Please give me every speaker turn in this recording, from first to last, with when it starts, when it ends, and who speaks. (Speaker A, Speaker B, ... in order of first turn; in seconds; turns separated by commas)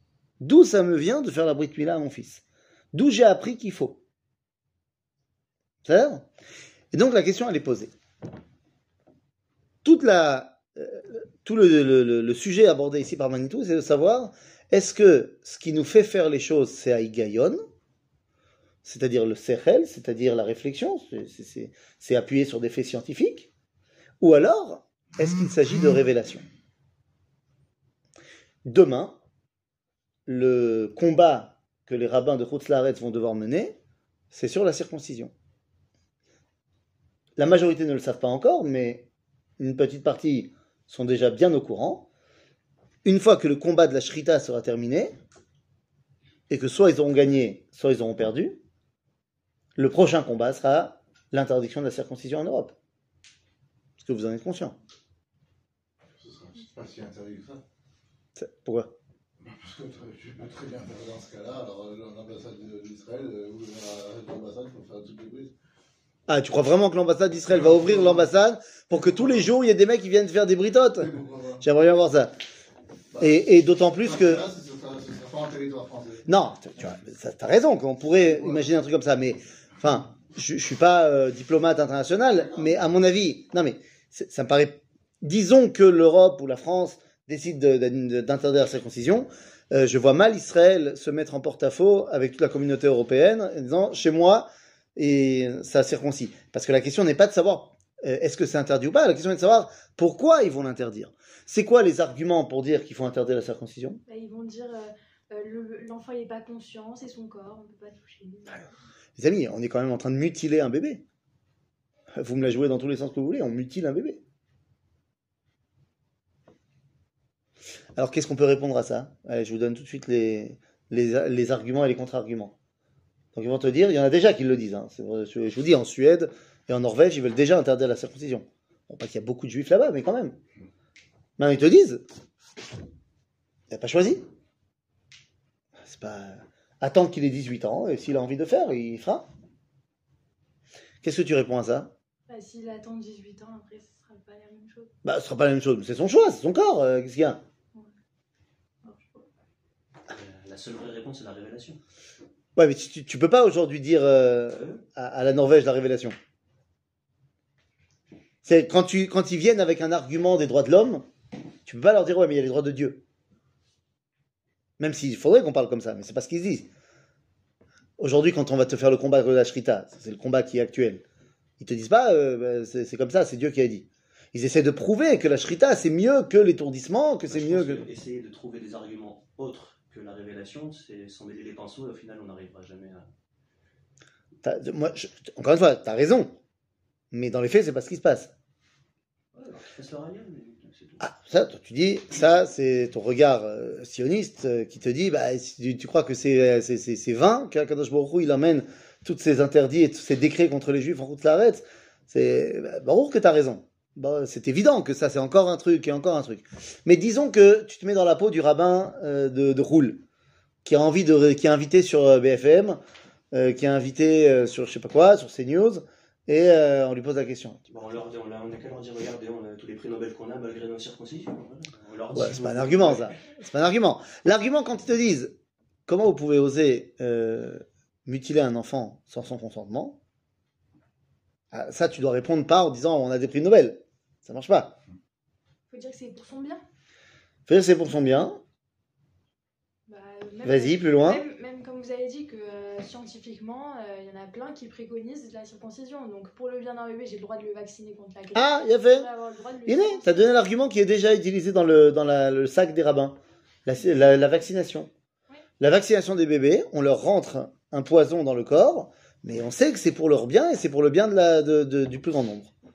Speaker A: 0.4-4.0, Speaker A: 5.8-6.3, Speaker A: 6.9-7.9, Speaker A: 9.8-17.6, Speaker A: 18.8-23.5, Speaker A: 24.2-26.4, Speaker A: 28.6-29.2, Speaker A: 30.3-33.8, Speaker A: 34.3-35.3, Speaker A: 37.4-39.1, Speaker A: 39.6-42.1, Speaker A: 43.0-45.1, Speaker A: 46.5-48.6, Speaker A: 49.8-52.7, Speaker A: 54.0-54.8, Speaker B: 56.2-57.6, Speaker A: 58.4-58.9, Speaker B: 59.4-65.5, Speaker A: 66.3-72.3, Speaker B: 71.0-71.6, Speaker B: 73.1-73.4, Speaker A: 73.2-74.4, Speaker B: 74.0-76.3, Speaker A: 76.3-104.0, Speaker B: 78.3-78.6, Speaker C: 104.0-108.7, Speaker A: 109.2-111.0, Speaker A: 112.2-114.2, Speaker A: 118.0-122.5, Speaker A: 123.3-130.4, Speaker A: 131.4-132.0, Speaker A: 133.7-134.2, Speaker A: 135.8-139.3, Speaker A: 141.0-141.9, Speaker C: 142.3-144.9, Speaker A: 145.0-147.4, Speaker C: 148.8-149.2, Speaker D: 150.1-151.8, Speaker A: 152.6-156.2, Speaker D: 154.5-154.8, Speaker A: 158.4-161.1, Speaker A: 161.7-163.0, Speaker A: 164.8-166.7, Speaker A: 168.0-171.0, Speaker A: 171.6-177.8, Speaker D: 177.3-183.1, Speaker A: 184.4-186.4, Speaker A: 187.1-188.3, Speaker D: 189.3-191.0, Speaker A: 191.0-210.0, Speaker A: 210.6-212.8, Speaker A: 213.3-217.6, Speaker D: 217.7-223.2, Speaker A: 222.1-225.3, Speaker A: 225.9-230.0, Speaker A: 231.5-234.8, Speaker C: 235.7-236.6, Speaker A: 237.5-238.4, Speaker C: 239.9-250.2, Speaker A: 240.4-241.2, Speaker A: 248.3-249.1, Speaker A: 249.7-254.9, Speaker A: 255.6-262.5